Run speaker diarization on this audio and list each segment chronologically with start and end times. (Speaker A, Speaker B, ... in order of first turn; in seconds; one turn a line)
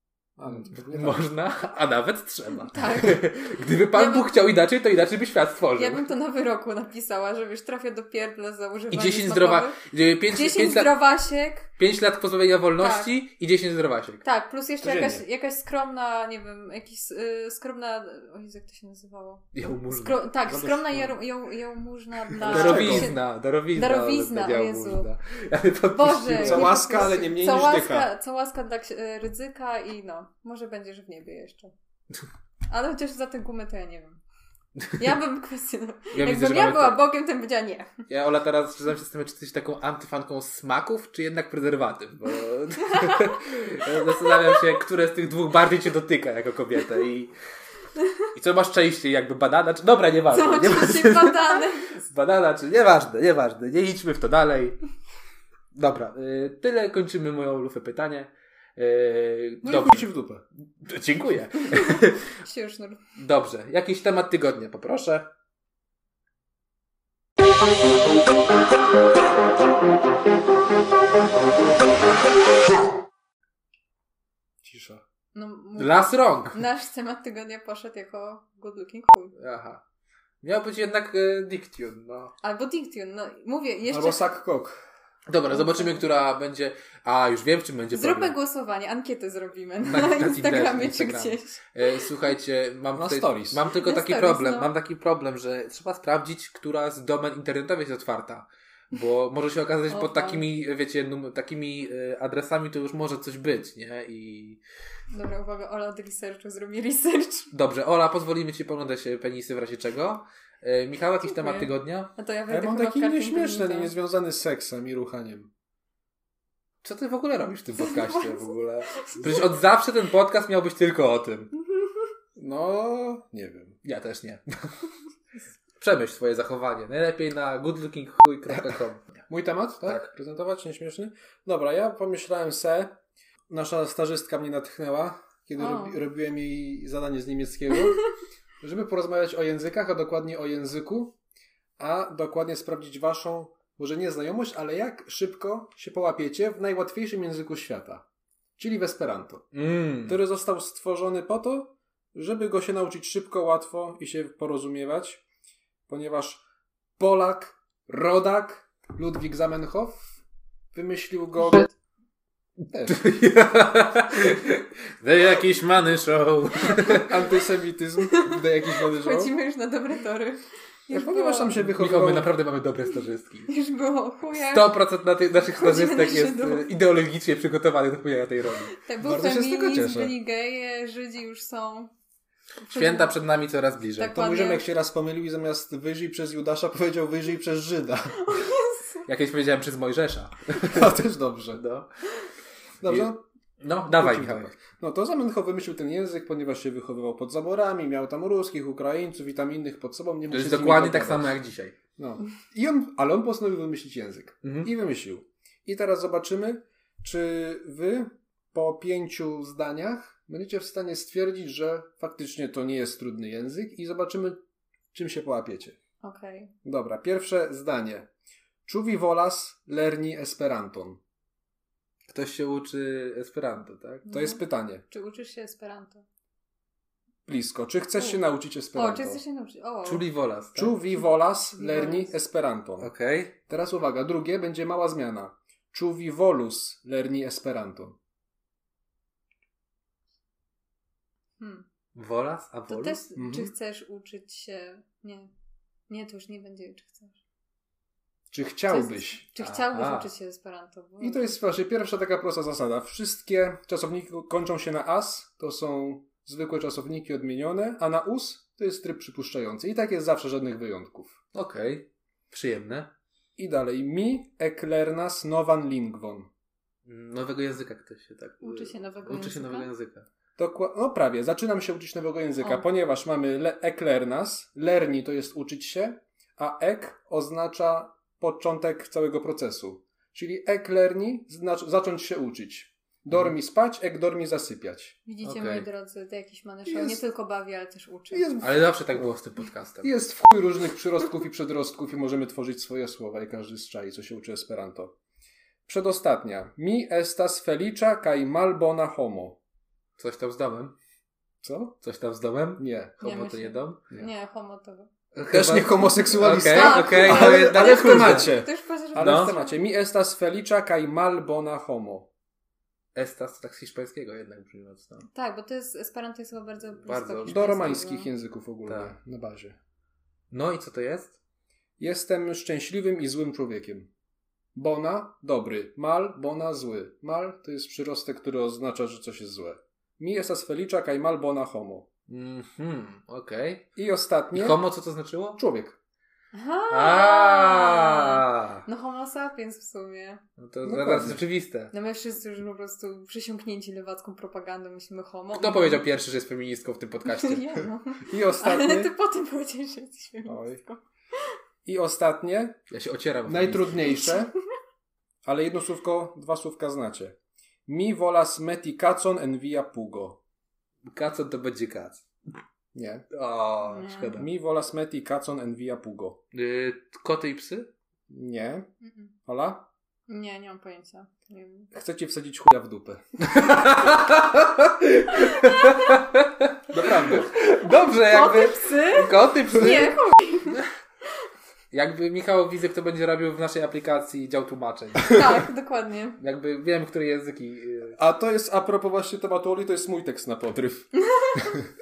Speaker A: 0.4-1.2
Speaker B: 0.5-6.0
Speaker C: 2.7-3.3
Speaker C: 3.9-4.3
Speaker C: 5.8-9.8
Speaker B: 8.9-10.9
Speaker C: 10.3-11.7
Speaker B: 11.8-14.2
Speaker C: 12.8-13.1
Speaker C: 14.2-25.1
Speaker A: 14.8-15.2
Speaker B: 19.5-20.2
Speaker A: 20.5-21.2
Speaker A: 22.4-23.1
Speaker B: 22.4-27.1
Speaker C: 25.9-31.7
Speaker A: 26.4-28.1
Speaker C: 32.7-34.2
Speaker C: 35.0-37.9
Speaker B: 36.1-37.0
Speaker B: 38.1-47.3
Speaker C: 42.9-43.4
Speaker C: 44.1-44.7
Speaker B: 48.3-54.8
Speaker C: 50.3-51.9
Speaker B: 55.7-60.1
Speaker A: 59.6-60.4
Speaker B: 60.8-62.4
Speaker C: 61.7-63.0
Speaker B: 63.2-65.3
Speaker A: 74.6-75.0
Speaker C: 75.3-79.3
Speaker B: 75.8-76.6
Speaker B: 79.3-79.8
Speaker B: 80.4-82.3
Speaker C: 82.4-84.3
Speaker A: 83.9-84.8
Speaker B: 85.3-88.3
Speaker C: 85.5-86.1
Speaker C: 87.9-91.6
Speaker B: 89.8-104.6
Speaker A: 92.9-93.6
Speaker C: 93.7-94.7
Speaker C: 99.9-100.4
Speaker C: 105.1-107.5
Speaker B: 107.5-112.1
Speaker C: 111.2-113.9
Speaker A: 112.5-115.5
Speaker B: 116.8-121.5
Speaker C: 117.8-119.6
Speaker C: 121.8-122.1
Speaker A: 122.4-123.8
Speaker B: 123.8-124.7
Speaker B: 125.8-129.2
Speaker A: 129.3-133.0
Speaker B: 129.8-130.1
Speaker A: 133.5-138.0
Speaker C: 135.6-136.0
Speaker A: 138.6-141.2
Speaker A: 141.8-148.1
Speaker A: 148.6-149.5
Speaker B: 149.5-150.2
Speaker A: 150.1-155.2
Speaker A: 155.9-156.4
Speaker A: 157.0-160.2
Speaker A: 160.7-161.7
Speaker A: 162.7-163.0
Speaker B: 162.8-167.1
Speaker A: 166.8-169.3
Speaker C: 168.0-171.6
Speaker A: 170.9-172.3
Speaker B: 171.6-173.5
Speaker C: 173.5-174.8
Speaker B: 174.4-178.8
Speaker C: 175.4-176.7
Speaker C: 178.7-181.9
Speaker A: 179.0-180.2
Speaker C: 182.6-183.1
Speaker B: 182.7-184.2
Speaker C: 184.0-184.7
Speaker A: 184.1-188.3
Speaker C: 188.2-189.1
Speaker B: 189.1-190.9
Speaker A: 190.6-191.6
Speaker B: 191.5-191.9
Speaker A: 192.8-193.2
Speaker B: 192.8-194.5
Speaker A: 193.9-201.3
Speaker B: 200.3-201.8
Speaker A: 202.0-214.4
Speaker B: 204.4-204.7
Speaker A: 214.9-215.8
Speaker C: 216.0-216.5
Speaker A: 216.6-218.1
Speaker A: 218.7-221.0
Speaker B: 222.1-224.1
Speaker C: 224.1-226.0
Speaker A: 224.1-224.8
Speaker A: 227.3-229.2
Speaker C: 228.7-230.0
Speaker B: 229.8-230.8
Speaker A: 230.6-232.9
Speaker C: 231.6-232.2
Speaker B: 232.8-233.3
Speaker A: 233.5-238.0
Speaker C: 241.4-241.7
Speaker B: 241.9-243.0
Speaker C: 242.7-245.3
Speaker A: 243.2-243.5
Speaker C: 245.9-247.2
Speaker A: 248.3-249.2
Speaker C: 248.7-251.4
Speaker B: 249.4-250.1
Speaker A: 251.0-261.2
Speaker B: 261.3-262.9
Speaker A: 263.4-266.3
Speaker B: 266.9-270.1
Speaker C: 268.4-269.7
Speaker A: 270.4-285.0
Speaker C: 272.4-272.6
Speaker C: 285.1-288.4
Speaker B: 285.2-285.7
Speaker A: 286.7-287.0
Speaker A: 288.1-289.1
Speaker B: 288.4-289.9
Speaker A: 289.8-294.9
Speaker A: 295.7-299.4
Speaker B: 300.0-300.7
Speaker A: 301.4-301.8
Speaker B: 301.8-303.8
Speaker A: 302.6-303.0
Speaker C: 303.0-304.9
Speaker B: 305.1-308.4
Speaker A: 305.3-312.1
Speaker C: 306.3-309.6
Speaker B: 309.0-309.3
Speaker B: 312.9-315.1
Speaker C: 315.1-318.1
Speaker B: 316.9-317.5
Speaker A: 317.3-319.6
Speaker B: 318.7-318.9
Speaker B: 320.3-321.2
Speaker A: 321.8-323.9
Speaker A: 324.6-331.9
Speaker B: 332.1-333.7
Speaker A: 333.8-334.6
Speaker B: 334.3-335.4
Speaker A: 335.4-335.8
Speaker C: 336.3-340.2
Speaker B: 336.7-338.6
Speaker B: 340.4-341.7
Speaker A: 340.6-341.2
Speaker C: 341.7-345.8
Speaker B: 345.3-347.5
Speaker C: 347.1-351.3
Speaker A: 348.1-348.9
Speaker A: 350.2-350.6
Speaker A: 351.6-352.6
Speaker B: 352.7-353.9
Speaker A: 353.3-354.3
Speaker C: 354.1-354.3
Speaker A: 355.2-360.2
Speaker B: 360.9-362.1
Speaker A: 362.7-363.1
Speaker B: 363.1-364.3
Speaker C: 363.7-364.2
Speaker A: 364.2-366.2
Speaker B: 366.3-367.7
Speaker A: 368.1-368.7
Speaker C: 368.8-369.1
Speaker A: 369.3-369.7
Speaker C: 370.1-371.7
Speaker A: 371.7-373.6
Speaker B: 373.3-380.0
Speaker C: 375.2-376.0
Speaker A: 376.7-377.3
Speaker C: 377.8-380.6
Speaker B: 381.7-385.2
Speaker C: 385.1-386.2
Speaker B: 386.2-388.0
Speaker A: 388.0-391.6
Speaker C: 390.9-391.6